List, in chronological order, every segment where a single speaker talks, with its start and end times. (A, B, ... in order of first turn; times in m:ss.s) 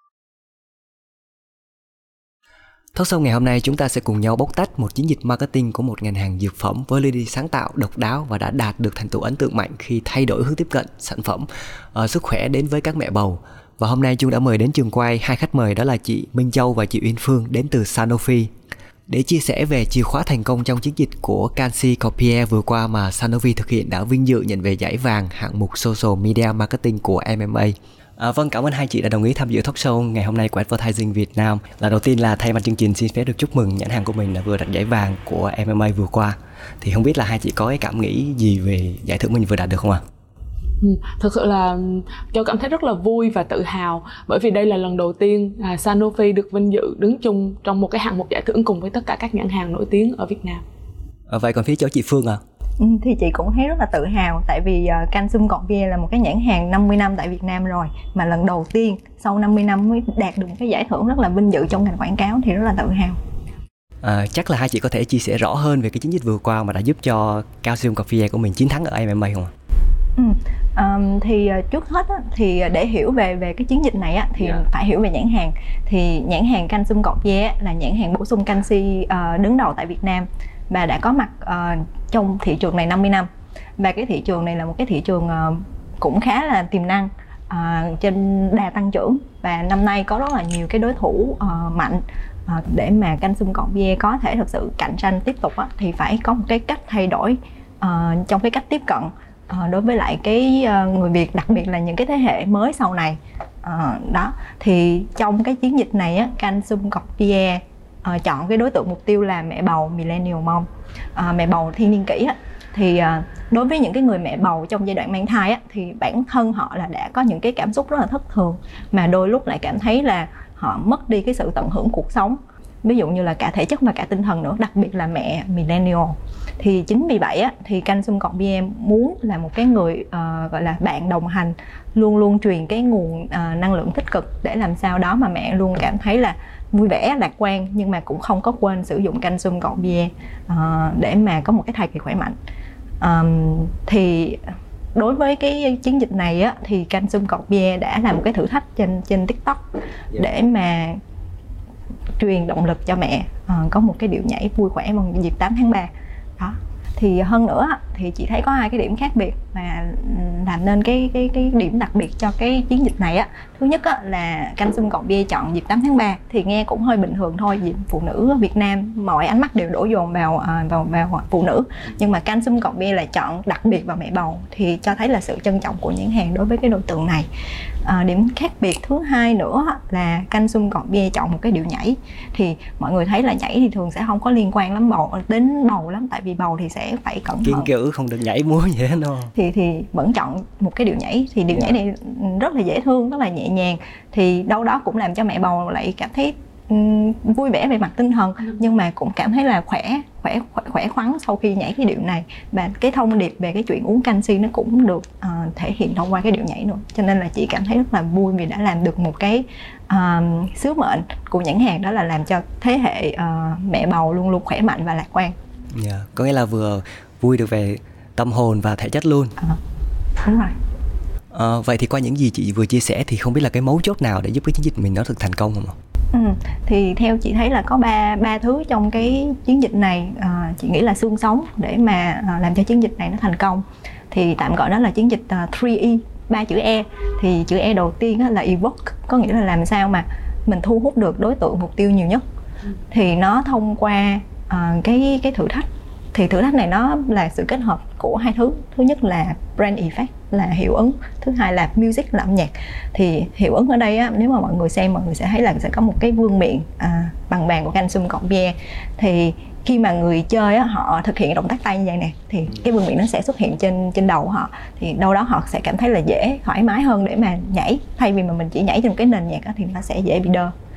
0:03.0-0:18.5 A
0:19.1-0:40.0 A
0:40.8-0:50.6 B
0:51.3-0:52.4 A
0:52.8-1:03.2 C
1:04.0-1:09.5 A
1:10.2-2:22.4 C
2:23.0-2:31.0 C
2:32.2-2:57.3 C
2:57.8-3:07.7 C
3:07.4-3:09.3 A
3:09.4-3:35.4 C
3:35.7-3:39.4 A
3:40.2-3:40.6 C
3:41.3-3:45.8 A
3:46.1-4:02.2 C
4:02.9-4:30.5 C